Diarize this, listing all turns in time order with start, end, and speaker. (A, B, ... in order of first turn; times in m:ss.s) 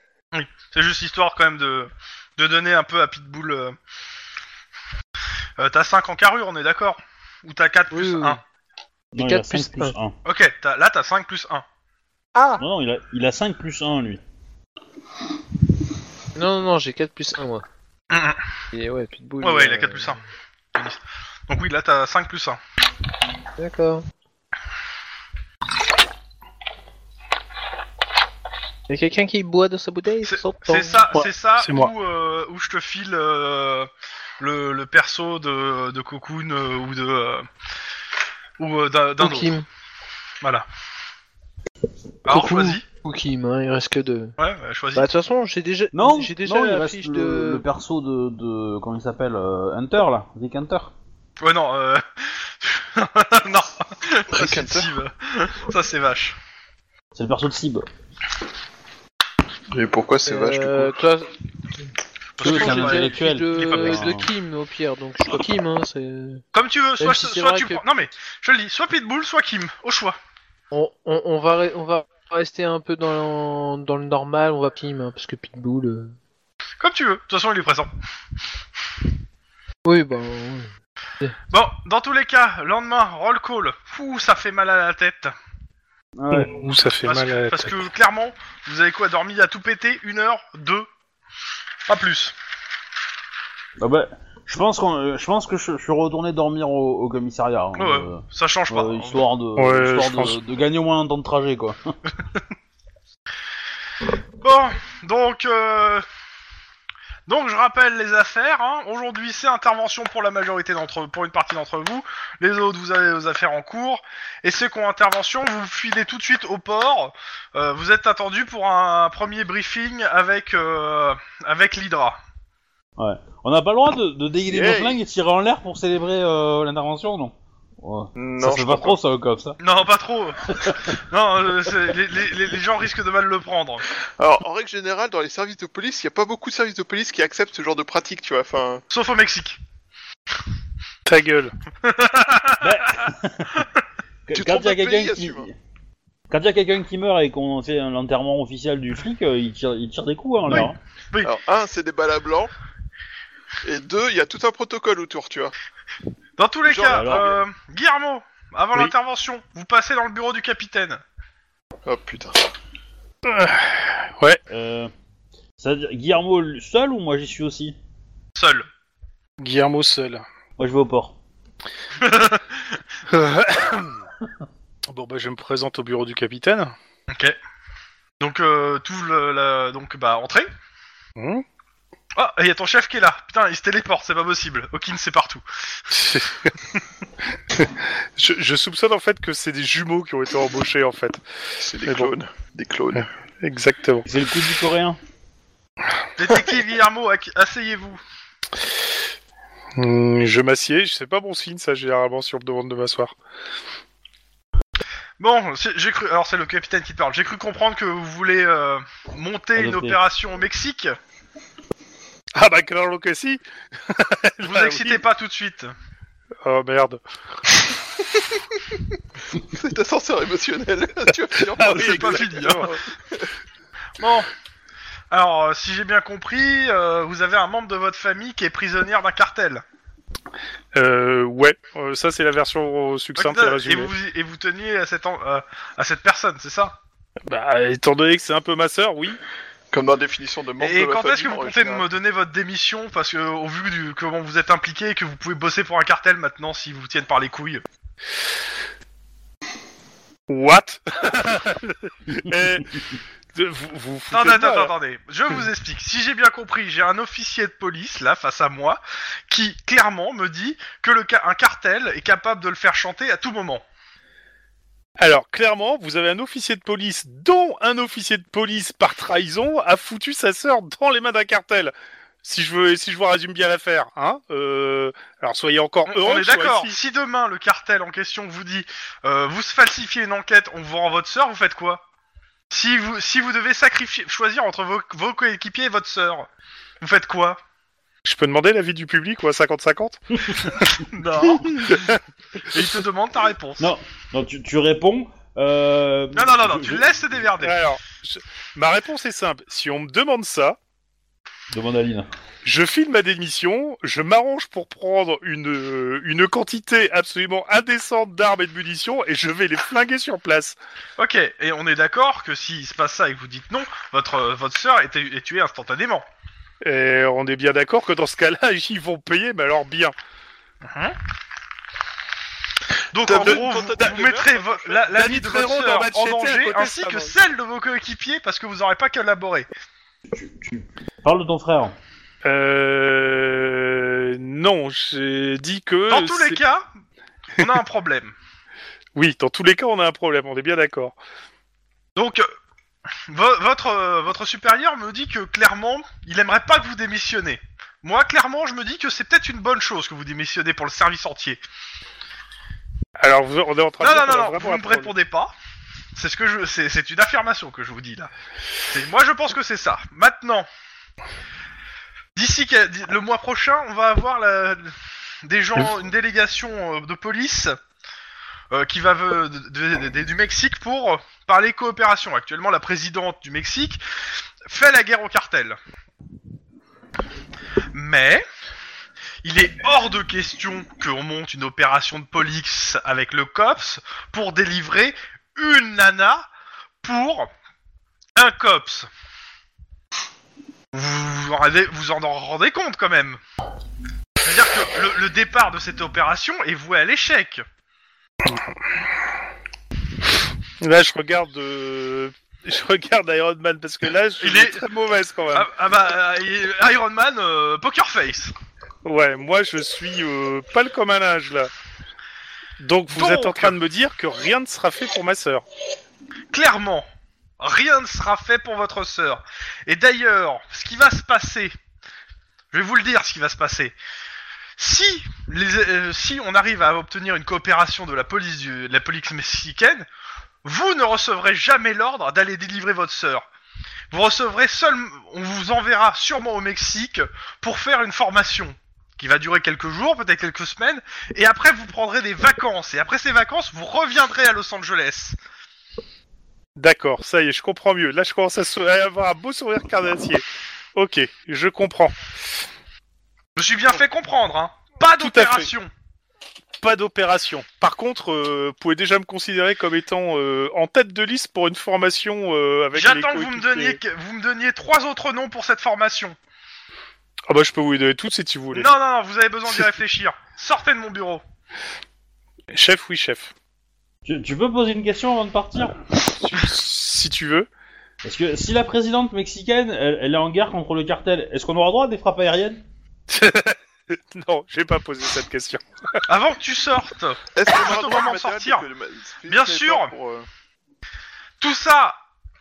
0:00.3-0:03.8 A
0:05.6-0:08.4 A
0:07.9-0:08.4 B
0:09.1-0:10.2 C
0:09.2-0:09.9 B
0:10.2-0:11.6 A
0:12.4-0:12.6 B
0:12.6-0:14.2 C
0:16.4-0:17.6 B
0:18.1-0:18.4 A
0:18.7-0:20.2 B
0:19.4-0:20.2 A
0:20.8-0:22.6 A
0:23.6-0:24.0 B
0:28.9-0:31.1 B
0:30.2-0:37.5 A
0:31.1-0:31.9 D
0:38.6-0:39.6 A
0:39.2-0:39.7 B
0:42.3-0:42.8 A
0:42.3-0:44.3 B
0:44.4-0:45.1 A
0:45.0-0:47.6 B
0:45.9-0:50.9 C
0:51.4-0:56.4 A
0:54.3-0:54.9 E
0:57.1-0:57.9 C
0:59.7-1:01.0 E
1:00.3-1:01.3 B
1:02.4-1:04.1 A
1:02.4-1:04.3 C
1:02.4-1:06.4 B
1:06.5-1:10.2 A
1:07.0-1:07.8 B
1:10.7-1:16.2 B
1:16.8-1:17.9 A
1:19.8-1:21.4 B
1:21.5-1:25.3 A
1:26.2-1:26.6 C
1:26.3-1:27.9 D
1:27.0-1:30.9 A
1:31.9-1:32.3 A
1:33.8-1:41.8 C
1:37.8-1:39.2 A
1:39.6-1:40.4 D
1:44.4-1:46.0 A
1:47.3-2:02.2 A
2:03.0-2:09.6 C
2:04.5-2:05.0 E
2:08.2-2:09.0 E
2:09.6-2:13.9 A
2:10.5-2:10.8 C
2:14.2-2:18.8 E
2:18.9-2:19.6 A
2:21.1-2:21.5 D
2:21.8-2:22.7 A
2:22.6-2:23.6 C
2:24.3-2:25.5 C
2:24.3-2:25.5 E
2:26.3-2:30.8 C
2:30.5-2:31.3 A
2:31.2-2:32.5 E
2:33.6-2:35.5 E
2:36.4-2:41.0 A
2:36.6-2:37.4 E
2:36.9-2:37.3 C
2:41.9-2:42.4 E
2:43.2-2:44.4 D
2:44.5-2:44.9 C
2:45.6-2:47.8 C
2:48.4-2:48.7 A
2:49.4-2:50.2 D
2:50.6-2:51.2 C
2:52.0-2:52.8 A
2:53.1-2:54.1 D
2:54.9-2:56.7 D
2:57.1-2:57.4 A
2:58.2-3:00.5 A
3:01.2-3:01.4 D
3:02.2-3:05.4 A
3:05.9-3:06.8 D
3:07.6-3:11.2 D
3:11.6-3:13.1 E
3:11.8-3:12.2 D
3:12.9-3:14.1 D
3:14.1-3:15.0 C
3:16.2-3:18.0 A
3:19.8-3:23.1 D
3:25.2-3:31.0 A
3:29.6-3:30.0 C
3:32.4-3:35.0 D
3:34.5-3:35.7 A
3:36.4-3:37.0 D
3:39.4-3:43.3 E
3:41.4-3:42.7 D
3:41.6-3:42.7 A
3:44.0-3:44.3 A
3:45.1-3:49.6 A
3:50.8-3:53.9 D
3:53.2-3:56.8 A
3:57.3-3:59.2 D
3:59.7-4:01.9 E
4:00.6-4:07.6 A
4:10.3-4:12.7 D
4:13.4-4:14.7 D
4:14.1-4:23.6 A
4:25.0-4:36.8 D
4:35.9-4:41.8 A
4:42.5-4:46.3 A
4:46.8-4:47.4 A
4:48.0-4:50.8 D
4:50.8-4:53.7 A
4:51.5-4:52.0 D
4:53.6-4:56.9 C
4:56.1-4:57.6 A
4:57.4-5:00.6 D
5:01.5-5:02.1 C
5:02.4-5:10.6 D
5:11.0-5:16.0 A
5:16.6-5:20.0 D
5:20.6-5:21.0 A
5:22.9-5:29.5 A
5:23.0-5:24.8 E
5:25.0-5:27.2 D
5:30.1-5:31.8 C
5:32.2-5:36.4 D
5:35.9-5:36.7 A
5:37.4-5:38.1 A
5:39.0-5:41.0 D
5:42.0-5:42.3 A
5:43.1-5:51.4 A
5:53.0-5:54.9 D
5:53.8-5:55.3 A
5:56.0-5:58.1 A
5:58.7-6:00.5 A
6:02.2-6:07.6 A
6:08.5-6:13.8 A
6:14.5-6:15.6 A
6:17.7-6:18.2 A
6:19.2-6:26.3 A
6:26.8-6:27.3 A
6:28.2-6:28.9 A
6:30.7-6:33.2 A
6:34.2-6:37.4 A
6:40.6-6:45.5 D
6:44.2-6:44.6 A
6:45.3-6:48.3 A
6:48.8-6:51.5 D
6:52.6-6:55.4 D
6:52.9-6:53.6 A
6:56.3-6:56.9 A
6:57.4-7:01.5 A
7:02.5-7:03.8 A
7:04.6-7:09.9 A
7:10.4-7:13.2 A
7:13.9-7:25.2 A
7:26.6-7:30.2 D
7:30.8-7:32.0 D
7:33.4-7:35.7 A
7:35.0-7:35.5 D
7:36.6-7:43.8 D
7:42.7-7:46.2 A
7:47.3-7:48.7 D
7:48.5-7:51.2 A
7:52.5-7:53.3 D
7:54.0-7:55.8 C
7:56.2-7:57.5 D
7:58.0-8:02.6 C
8:03.1-8:06.0 D
8:06.1-8:08.6 A
8:07.4-8:10.3 E
8:09.3-8:09.9 A
8:11.4-8:12.0 A